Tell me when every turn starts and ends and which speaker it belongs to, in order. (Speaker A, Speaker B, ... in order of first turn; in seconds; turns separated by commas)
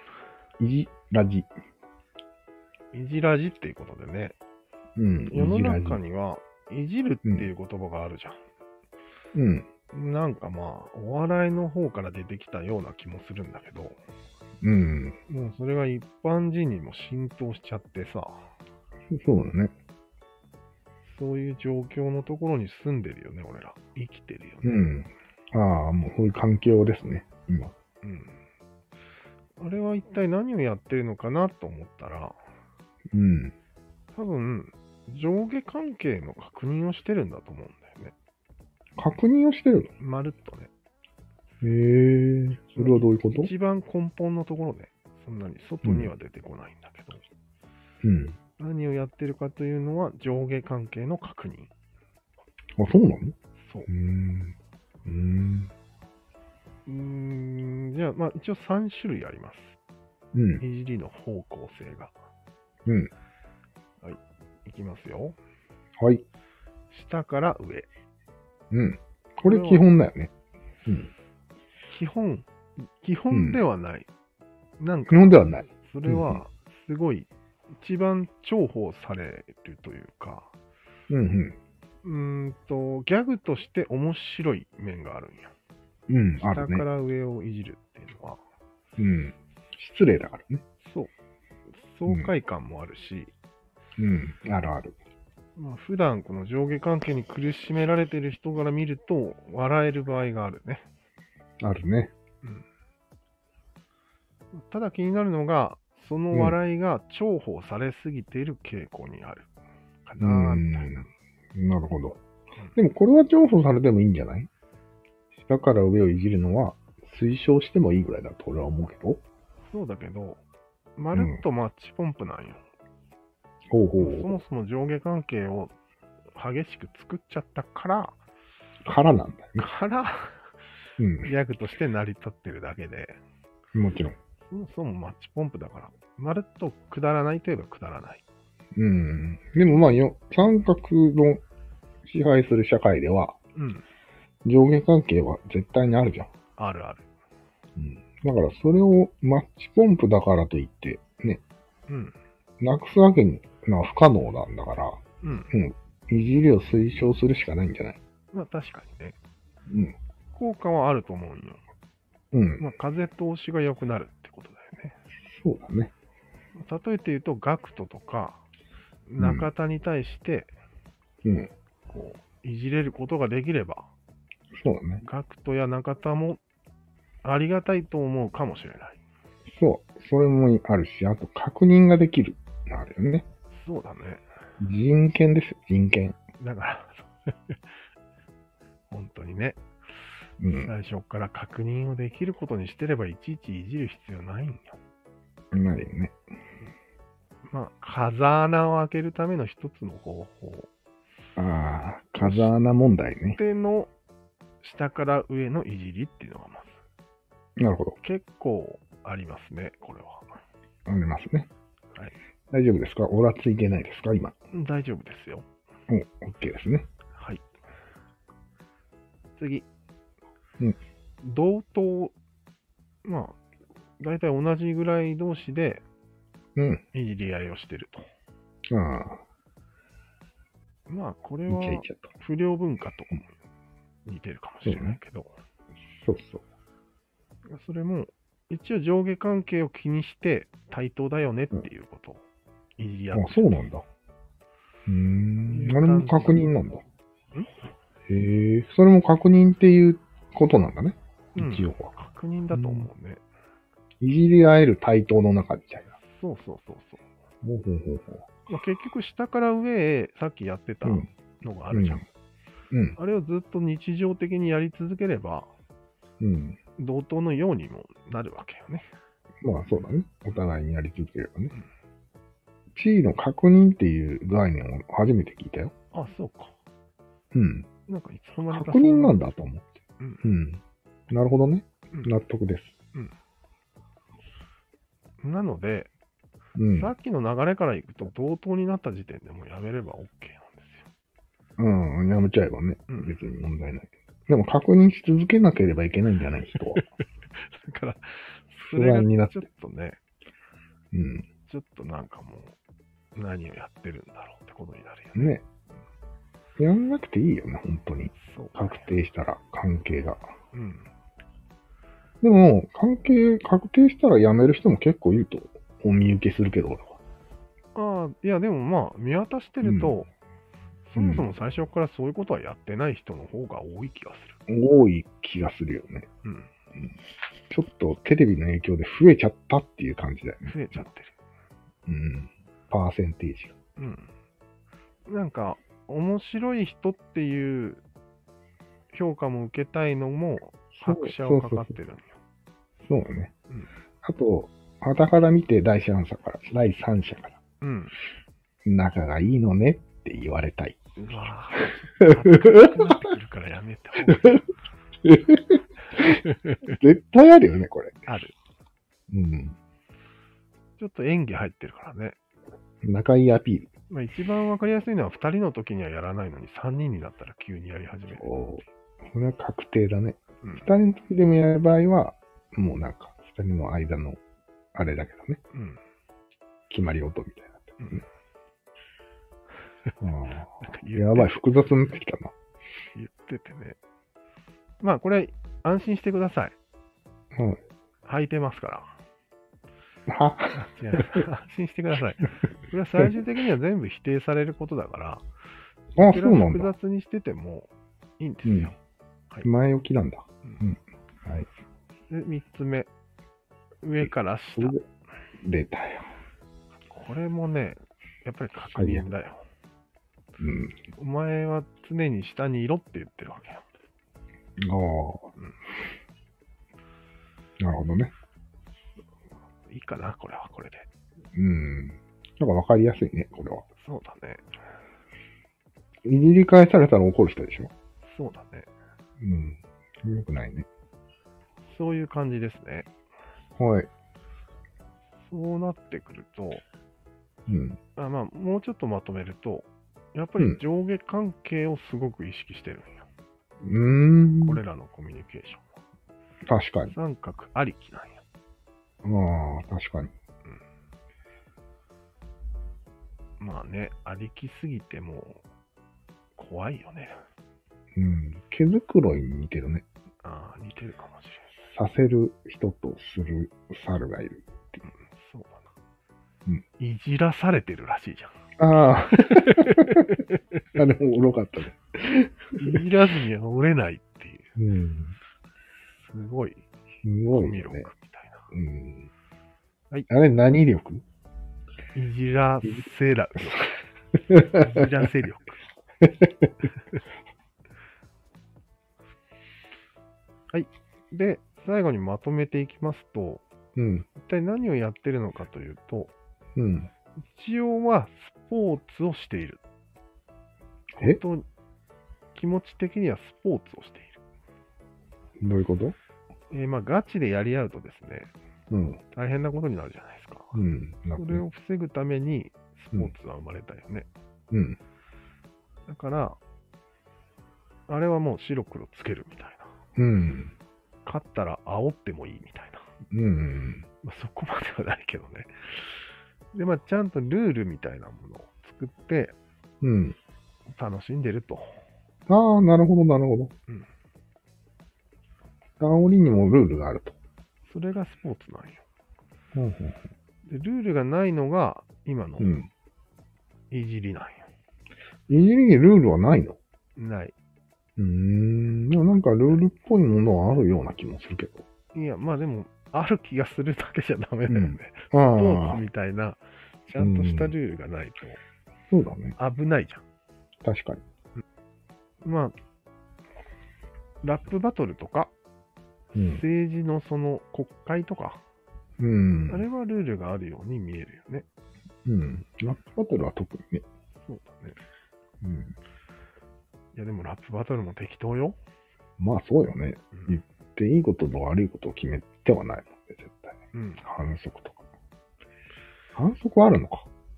Speaker A: 0.6-1.5, Speaker B: 2.9-4.3, Speaker A: 5.0-6.0, Speaker B: 5.3-8.4, Speaker A: 7.2-7.5, Speaker A: 9.3-9.7, Speaker B: 9.9-14.0, Speaker A: 14.6-15.2, Speaker B: 15.3-18.5, Speaker A: 19.1-19.7, Speaker B: 21.1-24.9, Speaker A: 24.6-27.7, Speaker B: 28.0-28.4, Speaker B: 29.6-32.4, Speaker A: 33.1-33.5, Speaker B: 34.1-38.1, Speaker A: 39.0-39.9, Speaker B: 40.0-40.7, Speaker A: 41.6-43.5, Speaker B: 42.8-47.2, Speaker A: 45.8-46.1, Speaker A: 48.0-48.4, Speaker B: 48.6-51.7, Speaker A: 52.8-53.4, Speaker B: 53.6-53.9, Speaker A: 53.9-55.7, Speaker B: 56.9-59.8, Speaker A: 60.3-60.6, Speaker B: 60.6-62.1, Speaker A: 62.9-63.1, Speaker B: 64.0-65.4, Speaker A: 66.0-66.2, Speaker B: 66.9-67.9, Speaker A: 68.7-70.3, Speaker B: 69.4-69.9, Speaker A: 70.8-71.1, Speaker B: 71.9-74.1, Speaker A: 73.3-73.6, Speaker B: 74.8-80.5, Speaker A: 75.1-76.4, Speaker A: 81.1-81.6, Speaker B: 82.0-85.5, Speaker A: 86.1-86.9, Speaker B: 86.4-88.4, Speaker A: 89.0-90.6, Speaker B: 90.8-91.1, Speaker B: 91.7-93.3, Speaker A: 94.0-94.9, Speaker B: 95.5-100.8, Speaker A: 101.6-102.1, Speaker B: 104.5-109.5, Speaker A: 106.3-106.6, Speaker B: 110.0-111.1, Speaker A: 110.2-112.2, Speaker A: 112.8-114.5, Speaker A: 115.4-119.2, Speaker B: 119.7-120.4, Speaker B: 121.0-122.6, Speaker A: 121.1-121.4, Speaker A: 123.7-124.3, Speaker B: 124.0-125.7, Speaker B: 126.3-128.2, Speaker A: 128.8-129.7, Speaker B: 129.6-130.5, Speaker A: 131.0-131.3, Speaker B: 131.2-133.2, Speaker A: 133.7-134.1, Speaker B: 134.5-138.2, Speaker A: 138.7-141.4, Speaker A: 142.0-143.4, Speaker B: 143.5-143.8, Speaker A: 144.4-146.3, Speaker B: 146.6-147.1, Speaker A: 147.8-151.4, Speaker B: 151.9-152.1, Speaker A: 152.6-158.0, Speaker B: 155.2-155.5, Speaker B: 158.3-159.2, Speaker A: 159.7-159.9, Speaker B: 160.3-161.6, Speaker A: 162.3-162.6, Speaker B: 162.6-165.0, Speaker A: 165.2-165.9, Speaker B: 166.6-168.4, Speaker B: 169.1-170.5, Speaker A: 169.2-169.5, Speaker A: 171.2-171.5, Speaker B: 171.9-173.9, Speaker A: 174.5-175.0, Speaker B: 175.0-176.4, Speaker B: 177.2-179.0, Speaker A: 179.5-183.2, Speaker B: 183.5-184.2, Speaker A: 184.6-186.2, Speaker B: 186.4-187.6, Speaker B: 188.9-189.6, Speaker A: 190.4-190.7, Speaker B: 190.5-194.8, Speaker A: 195.5-196.2, Speaker B: 197.5-200.7, Speaker A: 201.3-203.4, Speaker B: 202.2-202.5, Speaker B: 203.3-203.9, Speaker B: 204.6-206.8, Speaker A: 207.6-208.0, Speaker B: 208.0-210.3, Speaker A: 210.9-211.5, Speaker A: 212.5-214.3, Speaker B: 214.5-215.5, Speaker A: 215.9-216.9, Speaker B: 217.1-217.4, Speaker B: 219.4-219.7, Speaker B: 221.2-222.1, Speaker B: 223.0-223.4, Speaker B: 224.0-225.8, Speaker A: 226.6-226.8, Speaker B: 226.9-228.1, Speaker A: 228.7-229.2, Speaker B: 230.9-233.3, Speaker A: 231.5-232.1, Speaker B: 234.1-235.3, Speaker A: 234.6-235.0, Speaker A: 236.0-236.4, Speaker B: 237.5-242.2, Speaker B: 242.8-243.6, Speaker A: 243.1-243.8, Speaker A: 244.9-246.8, Speaker B: 245.5-246.5, Speaker A: 248.1-251.9, Speaker B: 251.3-253.2, Speaker A: 252.5-252.9, Speaker A: 254.0-255.9, Speaker B: 256.1-257.0, Speaker A: 257.4-258.3, Speaker B: 258.5-262.0, Speaker A: 260.8-261.1, Speaker A: 261.7-262.0, Speaker A: 262.7-263.0, Speaker B: 263.0-265.5, Speaker A: 266.2-266.6, Speaker B: 266.8-268.9, Speaker A: 269.4-271.5, Speaker A: 272.7-275.7, Speaker B: 275.9-276.5, Speaker A: 277.3-277.7, Speaker B: 277.9-279.3, Speaker A: 278.5-282.8, Speaker B: 285.2-285.9, Speaker A: 286.6-286.9, Speaker B: 286.7-290.8, Speaker A: 291.6-296.8, Speaker B: 292.9-293.2, Speaker B: 297.4-300.0, Speaker A: 298.7-299.4, Speaker A: 300.9-301.2, Speaker B: 301.4-302.6, Speaker B: 303.1-305.4, Speaker A: 305.1-305.4, Speaker A: 306.6-310.2, Speaker B: 308.2-308.9, Speaker B: 310.5-310.9, Speaker A: 312.2-317.0, Speaker B: 317.7-320.1, Speaker A: 319.6-319.9, Speaker B: 320.9-324.4, Speaker A: 320.9-321.3, Speaker A: 324.5-326.1, Speaker B: 326.2-326.5, Speaker A: 327.5-330.9, Speaker B: 330.4-331.1, Speaker A: 331.9-333.6, Speaker B: 333.8-334.1, Speaker B: 335.1-337.8, Speaker B: 338.9-342.2, Speaker A: 340.8-341.8, Speaker A: 342.8-343.3, Speaker A: 344.0-347.4, Speaker B: 347.6-347.9, Speaker A: 348.6-350.8, Speaker B: 350.9-354.5, Speaker A: 352.0-352.8, Speaker A: 355.0-358.0, Speaker B: 356.2-356.7, Speaker B: 358.1-358.3, Speaker A: 359.1-359.6, Speaker B: 360.8-362.2, Speaker A: 362.8-363.7, Speaker B: 363.9-368.3, Speaker A: 368.1-374.2, Speaker B: 370.4-370.7, Speaker A: 374.7-375.4, Speaker B: 375.5-375.8, Speaker A: 376.7-378.0, Speaker A: 380.0-382.3, Speaker B: 380.6-381.4, Speaker B: 382.9-383.8, Speaker B: 384.8-386.6, Speaker A: 387.3-387.6, Speaker B: 388.0-388.9, Speaker A: 390.1-391.2, Speaker B: 390.6-395.2, Speaker B: 395.9-398.8, Speaker A: 395.9-396.7, Speaker A: 398.4-398.7, Speaker A: 399.4-401.5, Speaker B: 402.1-402.9, Speaker B: 403.8-404.8, Speaker A: 404.0-404.8, Speaker A: 405.4-406.1, Speaker B: 406.9-409.4, Speaker A: 408.7-409.1, Speaker A: 410.4-410.8, Speaker B: 410.9-413.6, Speaker A: 414.6-415.3, Speaker A: 417.6-418.1, Speaker B: 419.6-420.9, Speaker A: 421.3-423.6, Speaker B: 423.8-424.4, Speaker A: 426.0-427.7, Speaker B: 428.0-428.7, Speaker A: 429.2-430.7, Speaker B: 431.6-432.9, Speaker A: 433.6-433.9, Speaker B: 435.3-436.6, Speaker A: 437.5-437.8, Speaker B: 437.9-443.1, Speaker A: 443.6-444.6, Speaker B: 444.4-445.7, Speaker A: 446.5-446.9, Speaker B: 446.9-448.2, Speaker A: 449.0-450.1, Speaker B: 453.4-455.4, Speaker B: 456.4-457.2, Speaker A: 457.9-459.8, Speaker B: 460.2-461.5, Speaker A: 461.6-464.8, Speaker B: 464.9-465.6, Speaker B: 466.8-468.3, Speaker A: 468.6-470.1, Speaker B: 469.2-470.4, Speaker A: 470.7-472.8, Speaker B: 472.6-474.5, Speaker A: 474.6-475.1, Speaker B: 475.7-476.6, Speaker A: 477.0-477.9, Speaker B: 477.3-478.4, Speaker A: 478.5-479.1, Speaker A: 480.1-481.0, Speaker B: 481.9-483.8, Speaker A: 484.3-484.9, Speaker B: 484.3-485.6, Speaker A: 486.0-486.5, Speaker B: 490.5-493.4, Speaker A: 493.8-494.1, Speaker B: 494.1-496.1, Speaker A: 496.6-496.9, Speaker B: 497.2-499.6, Speaker B: 500.9-501.4, Speaker B: 502.3-504.2, Speaker A: 505.4-505.9, Speaker B: 506.5-508.3, Speaker A: 508.7-509.0, Speaker B: 509.1-510.6, Speaker A: 510.5-511.4, Speaker B: 511.1-514.1, Speaker A: 514.5-514.8, Speaker B: 515.9-516.4, Speaker B: 517.9-519.7, Speaker A: 520.0-520.5, Speaker B: 521.0-522.8, Speaker A: 523.1-523.8, Speaker B: 524.0-525.9, Speaker B: 526.5-529.4, Speaker A: 529.8-530.2, Speaker B: 530.7-531.8, Speaker A: 532.3-533.5, Speaker A: 535.8-537.1, Speaker B: 537.6-538.8, Speaker A: 539.5-540.0, Speaker B: 540.5-542.5, Speaker A: 542.4-542.7, Speaker B: 543.7-544.5, Speaker A: 545.3-546.6, Speaker B: 547.0-547.3, Speaker A: 548.0-551.6, Speaker B: 549.2-549.7, Speaker B: 551.9-558.4, Speaker A: 554.5-555.8, Speaker A: 557.0-557.5, Speaker A: 558.9-559.3, Speaker B: 559.4-560.0, Speaker A: 560.6-561.0, Speaker B: 562.2-562.5, Speaker B: 564.2-565.3, Speaker A: 566.1-566.4, Speaker B: 566.1-568.4, Speaker A: 569.0-569.6, Speaker B: 569.5-571.5, Speaker A: 572.0-573.8, Speaker B: 574.2-574.8, Speaker A: 575.4-575.7, Speaker B: 576.9-578.6, Speaker A: 579.2-584.8, Speaker B: 580.1-580.4, Speaker B: 583.7-584.0, Speaker A: 586.1-587.1